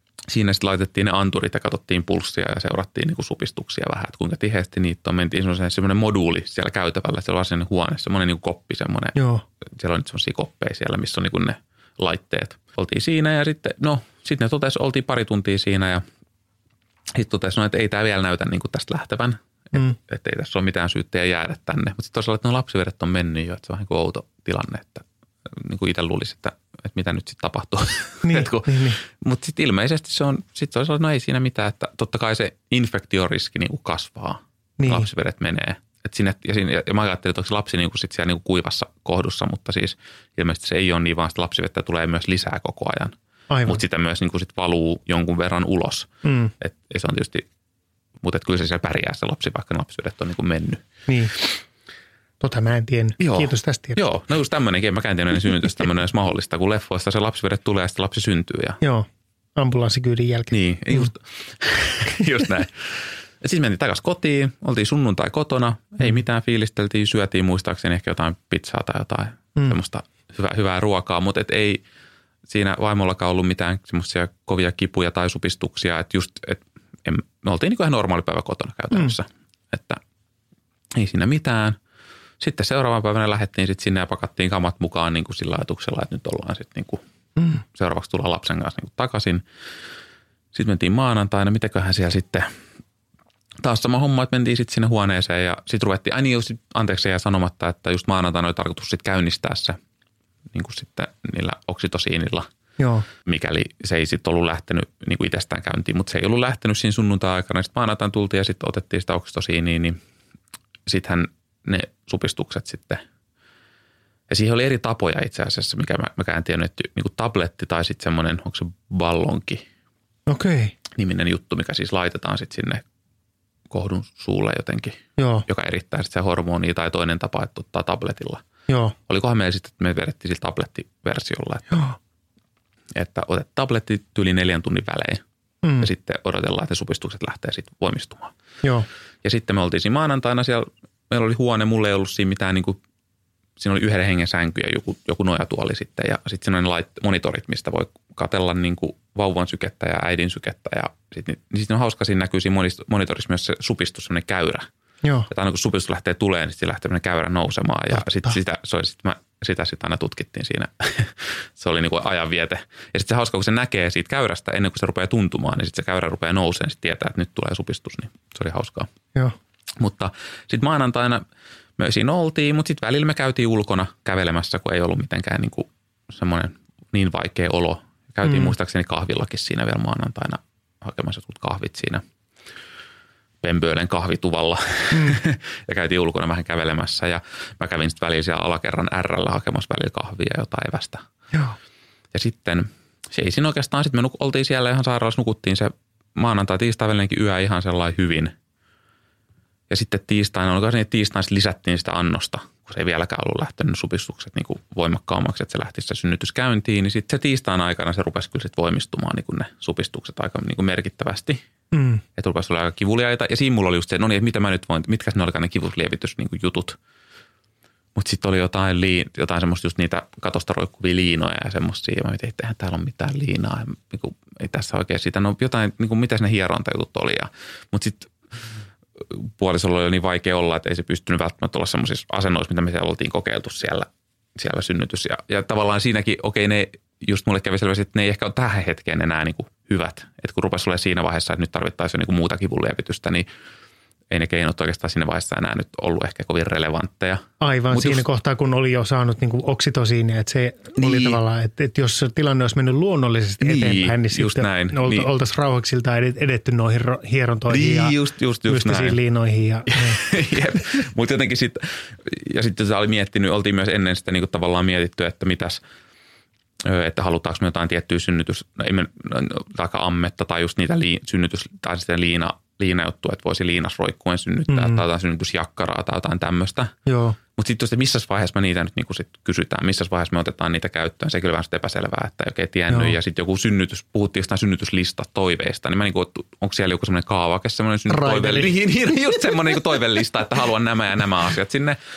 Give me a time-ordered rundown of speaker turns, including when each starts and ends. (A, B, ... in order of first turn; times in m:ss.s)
0:00.3-0:09.2 A
0:09.2-0:09.4 B
0:09.8-0:16.0 A
0:17.1-0:43.1 A
0:28.2-0:29.0 B
0:34.8-0:35.1 B
0:43.5-0:43.8 B
0:43.7-0:47.4 A
0:46.2-0:46.5 B
0:48.2-0:50.8 A
0:52.4-0:54.0 B
0:53.2-0:58.8 A
0:58.8-1:01.1 B
1:00.5-1:11.8 A
1:12.5-1:20.0 A
1:21.0-1:21.8 A
1:22.4-1:27.0 A
1:27.4-1:27.6 B
1:27.7-1:29.4 A
1:30.5-1:32.5 A
1:33.6-1:39.8 A
1:40.5-1:42.5 A
1:42.8-1:43.1 B
1:43.2-1:50.0 A
1:50.9-1:53.0 A
1:54.3-1:59.6 A
2:00.3-2:00.8 B
2:01.0-2:02.8 A
2:03.7-2:08.4 A
2:05.2-2:05.4 B
2:08.7-2:09.0 B
2:09.1-2:11.8 A
2:11.7-2:12.0 B
2:13.0-2:15.2 A
2:15.6-2:15.9 B
2:15.8-2:18.3 A
2:19.2-2:22.8 A
2:23.6-2:34.7 A
2:35.0-2:35.3 B
2:35.3-2:48.9 A
2:38.0-2:38.4 B
2:49.8-2:51.2 A
2:51.8-3:02.0 A
2:58.2-2:58.5 B
3:03.4-3:11.0 A
3:04.9-3:05.2 B
3:12.1-3:18.3 A
3:19.7-3:31.4 A
3:31.7-3:32.0 B
3:32.2-3:36.8 A
3:38.0-3:48.1 A
3:49.0-4:03.3 A
4:04.1-4:08.0 A
4:07.4-4:17.9 B
4:10.8-4:11.2 A
4:13.4-4:15.1 A
4:17.5-4:19.0 A
4:18.5-4:20.0 B
4:19.7-4:25.6 A
4:26.6-4:36.8 A
4:34.5-4:34.8 B
4:36.9-4:37.2 B
4:37.4-4:51.8 A
4:42.7-4:43.0 B
4:47.9-4:48.5 B